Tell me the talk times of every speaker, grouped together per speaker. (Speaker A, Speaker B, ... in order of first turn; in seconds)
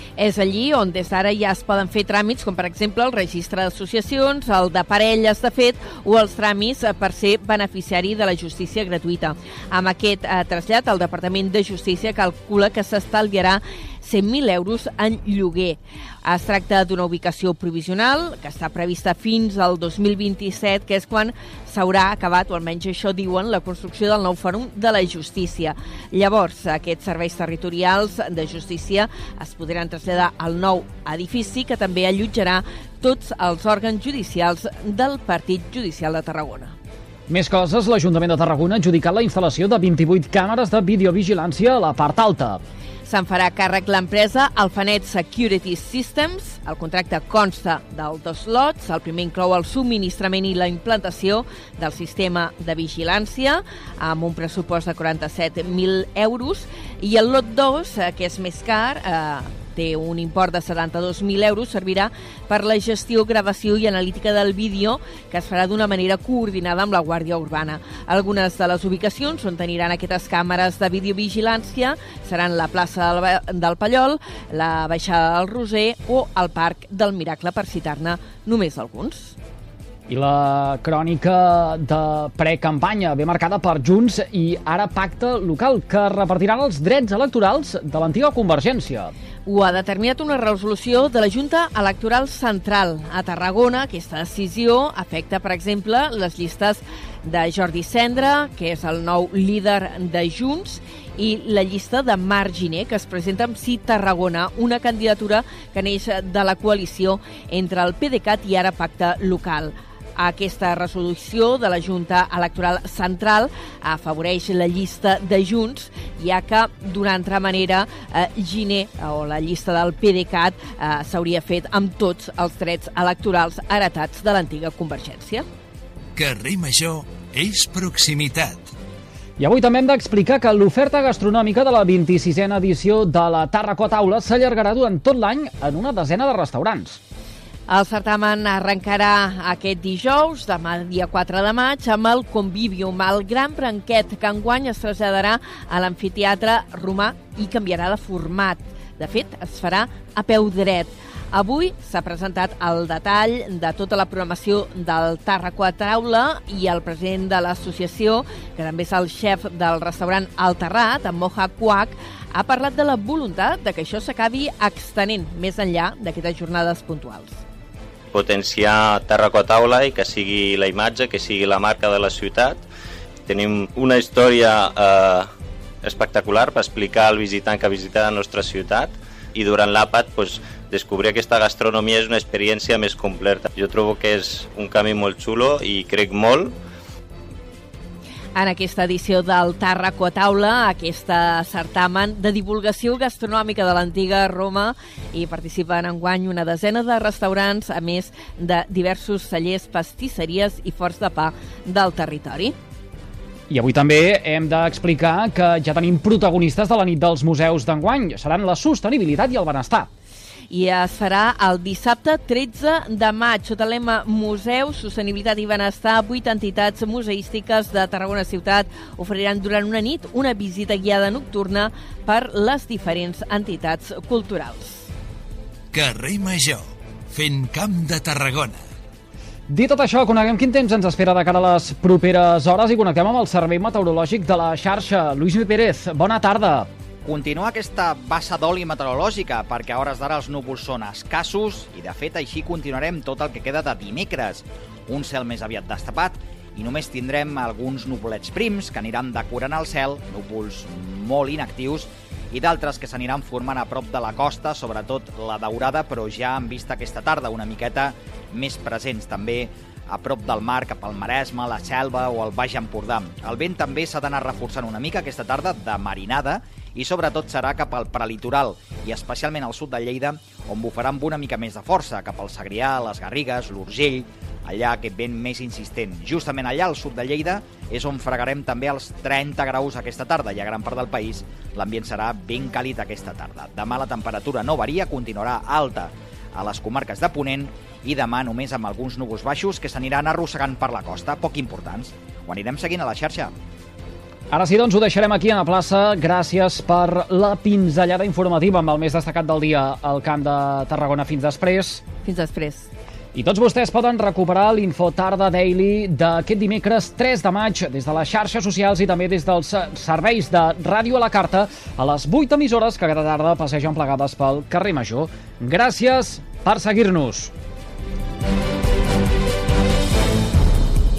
Speaker A: 0.2-36.7, 43.0-79.3, 89.4-125.5, 137.7-167.4, 188.3-202.5, 210.5-224.8, 302.0-302.7
Speaker B: 37.3-42.6, 80.1-89.1, 129.4-137.0, 203.5-209.9, 229.5-236.7, 294.3-301.8, 303.1-317.3
Speaker C: 126.1-128.7, 225.7-228.6
Speaker D: 168.1-172.6, 173.3-175.3, 175.8-186.5
Speaker E: 237.0-293.3